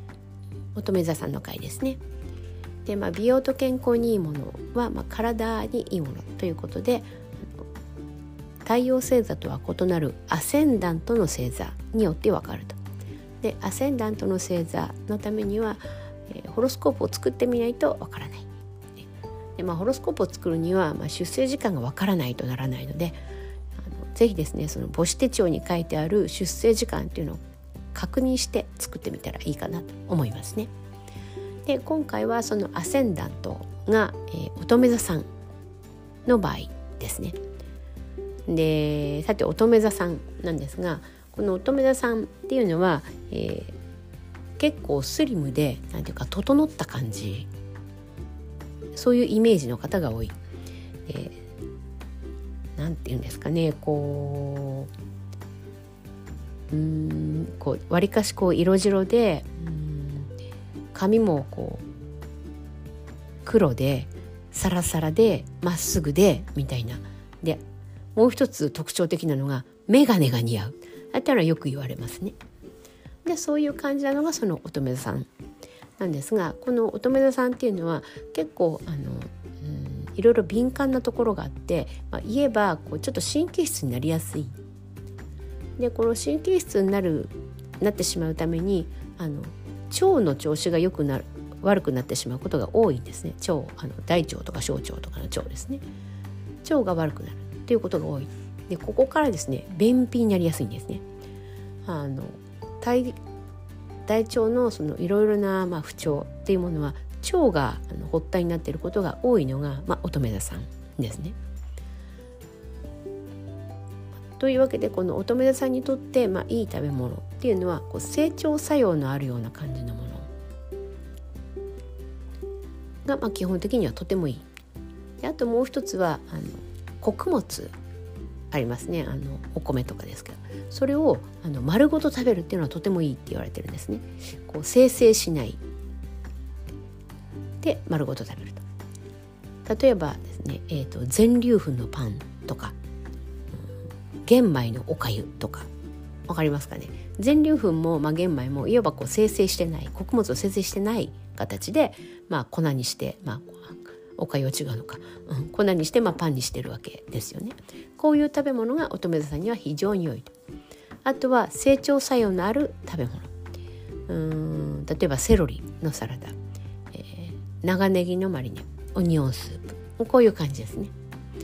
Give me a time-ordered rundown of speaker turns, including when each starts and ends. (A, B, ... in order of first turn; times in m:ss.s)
0:00.8-0:02.0 A
0:02.8-0:07.1 A
0:08.6-0:12.8 A
0:13.4-0:19.0 A
0:19.6-0:23.2 A
0:23.8-0:27.4 A
0:27.9-0:30.7 A
0:31.7-0:35.3 A
0:36.3-0:37.4 A
0:38.5-0:43.8 A
0:44.6-0:47.5 A
0:48.9-0:50.4 A
0:51.1-0:51.4 A
0:52.8-0:54.9 A
0:56.7-1:00.3 A
1:00.9-1:01.8 A
1:03.4-1:07.6 A
1:08.2-1:12.4 A
1:13.2-1:15.3 A
1:16.0-1:24.6 A
1:25.8-1:35.8 A
1:36.6-1:41.0 A
1:41.8-1:43.2 A
1:44.1-1:51.4 A
1:54.4-2:00.3 A
2:03.0-2:04.5 A
2:05.2-2:07.7 A
2:08.5-2:15.6 A
2:17.6-2:18.7 A
2:19.6-2:22.8 A
2:24.2-2:25.7 A
2:26.3-2:40.3 A
2:41.0-2:43.3 A
2:44.1-2:46.4 A
2:46.9-2:50.9 A